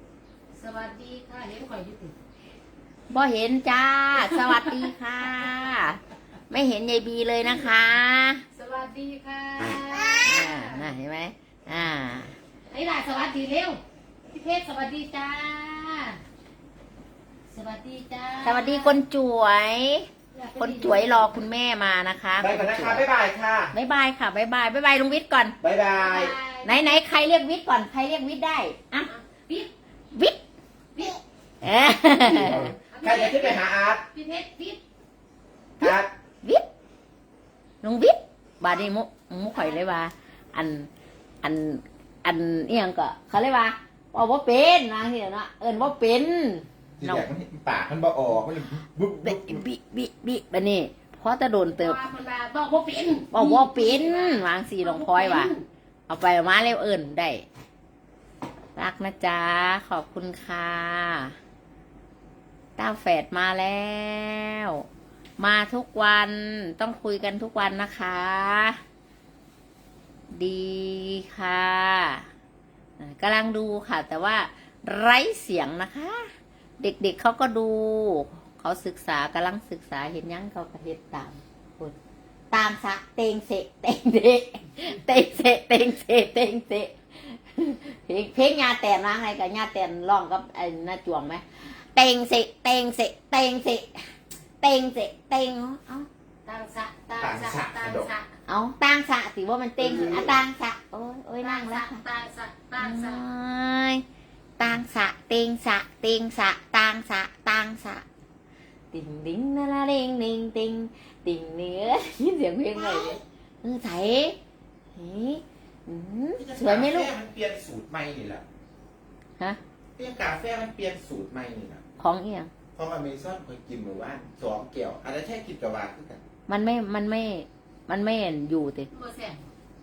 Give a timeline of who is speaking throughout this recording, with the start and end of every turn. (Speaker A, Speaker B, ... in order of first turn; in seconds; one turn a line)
Speaker A: 0.6-2.1
Speaker B: 3.1-8.4
Speaker A: 8.5-10.9
Speaker B: 10.3-12.3
Speaker A: 12.7-16.2
Speaker A: 17.5-19.0
Speaker B: 18.4-23.1
Speaker A: 20.3-21.3
Speaker C: 22.4-23.7
Speaker B: 23.7-25.6
Speaker C: 25.6-26.3
Speaker A: 25.9-26.8
Speaker B: 26.6-29.1
Speaker A: 29.1-29.7
Speaker A: 30.9-31.2
Speaker B: 31.6-32.7
Speaker C: 32.2-34.0
Speaker A: 32.8-34.8
Speaker C: 35.8-36.1
Speaker B: 35.8-36.6
Speaker B: 37.8-40.9
Speaker B: 41.4-47.3
Speaker C: 47.0-49.6
Speaker B: 49.1-52.0
Speaker A: 51.8-55.6
Speaker B: 53.3-55.5
Speaker B: 56.1-57.4
Speaker B: 58.8-61.4
Speaker B: 62.8-64.8
Speaker B: 65.4-68.8
Speaker B: 70.3-72.2
Speaker B: 73.0-76.2
Speaker B: 76.8-82.0
Speaker B: 82.5-94.0
Speaker B: 94.6-96.1
Speaker A: 96.5-98.3
Speaker C: 97.2-98.1
Speaker B: 98.5-102.0
Speaker C: 99.8-100.4
Speaker A: 101.4-103.2
Speaker B: 102.8-104.0
Speaker B: 104.6-108.0
Speaker B: 108.9-114.4
Speaker C: 112.8-113.2
Speaker B: 115.0-117.1
Speaker C: 116.4-118.4
Speaker C: 120.0-121.8
Speaker B: 122.0-122.5
Speaker C: 122.8-126.2
Speaker B: 126.5-128.9
Speaker A: 128.9-129.5